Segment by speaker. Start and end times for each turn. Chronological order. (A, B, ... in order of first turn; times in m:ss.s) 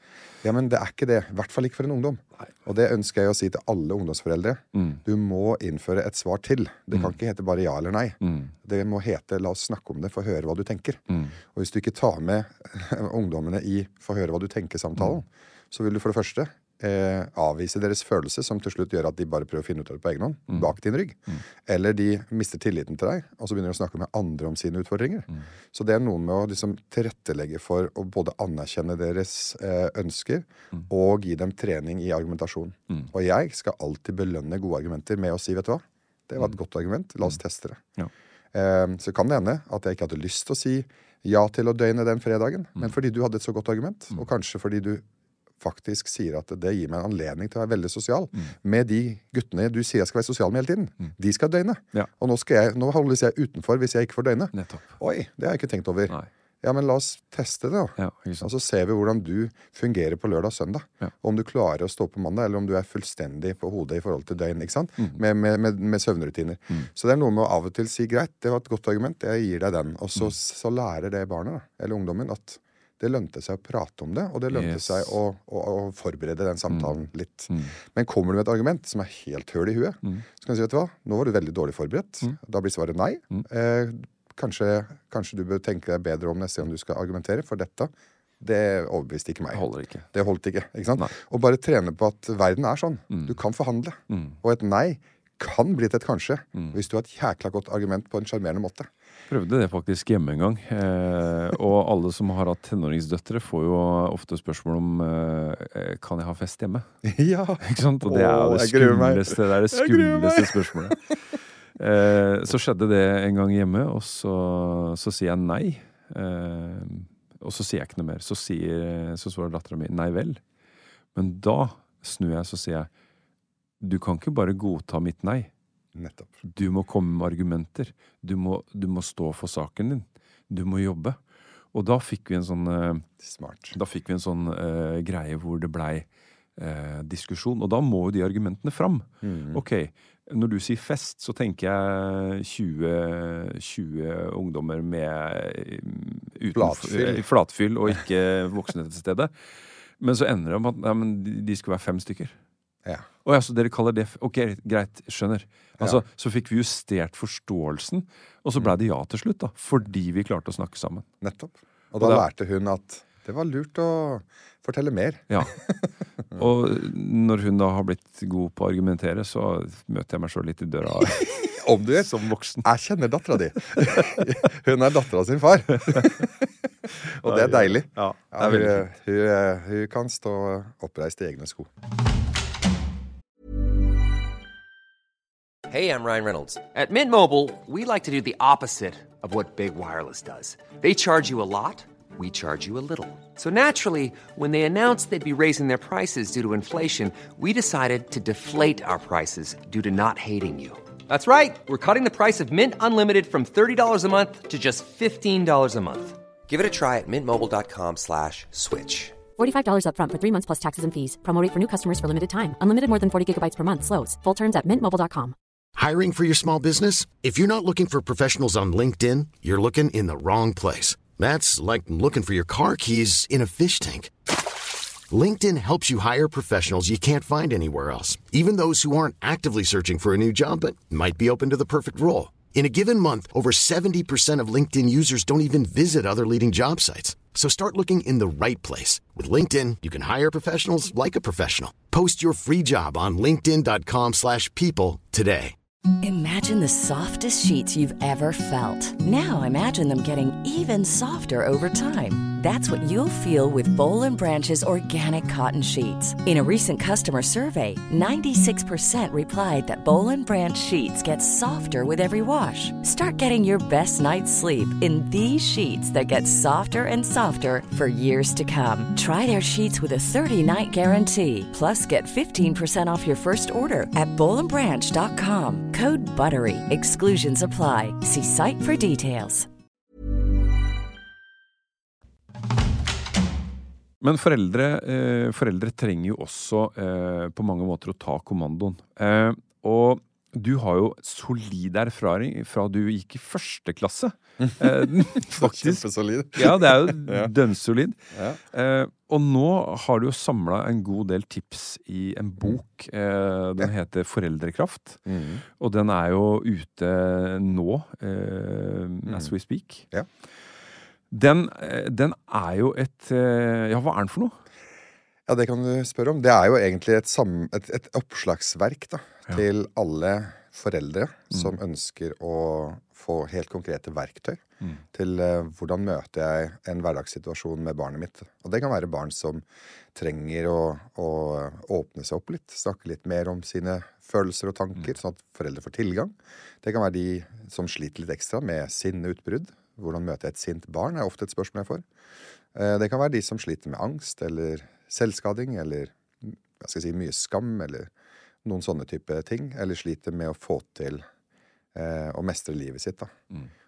0:00.4-0:37.8 A
0:04.8-0:05.0 B
0:08.2-0:08.5 B
0:11.1-0:11.4 B
0:38.5-0:45.0 A
0:45.6-1:38.9 A
0:54.5-0:54.9 B
0:58.0-0:58.5 B
1:14.5-1:15.1 B
1:29.5-1:30.1 B
1:33.1-1:33.4 B
1:34.1-1:34.4 B
1:39.3-1:46.9 B
1:47.0-1:51.0 A
1:47.6-1:51.1 B
1:51.8-2:00.4 B
2:01.2-2:02.9 B
2:03.8-2:05.5 B
2:06.0-2:06.4 A
2:06.4-2:11.2 B
2:11.7-2:13.0 B
2:13.2-2:13.8 A
2:13.7-2:16.1 B
2:16.6-2:29.3 B
2:19.2-2:19.6 A
2:26.5-2:27.2 A
2:30.0-2:32.4 B
2:33.2-2:41.1 B
2:41.2-2:46.4 A
2:45.3-2:45.6 B
2:46.4-2:52.6 B
2:51.3-2:56.3 A
2:57.2-3:01.7 A
2:57.2-2:58.9 B
3:05.7-3:29.2 C
3:29.4-3:35.4 D
3:35.8-3:44.1 E
3:45.1-4:05.5 E
4:06.0-4:39.5 F
4:44.0-4:55.8 B
4:54.4-4:57.3 A
4:56.4-4:58.0 B
4:58.1-4:58.4 A
4:58.5-5:05.0 B
5:05.0-5:05.4 A
5:05.6-5:09.9 B
5:09.0-5:09.3 A
5:11.1-5:14.4 B
5:15.3-5:29.4 A
5:30.0-5:41.9 A
5:42.5-5:47.9 A
5:48.4-5:51.0 A
5:51.7-5:53.2 A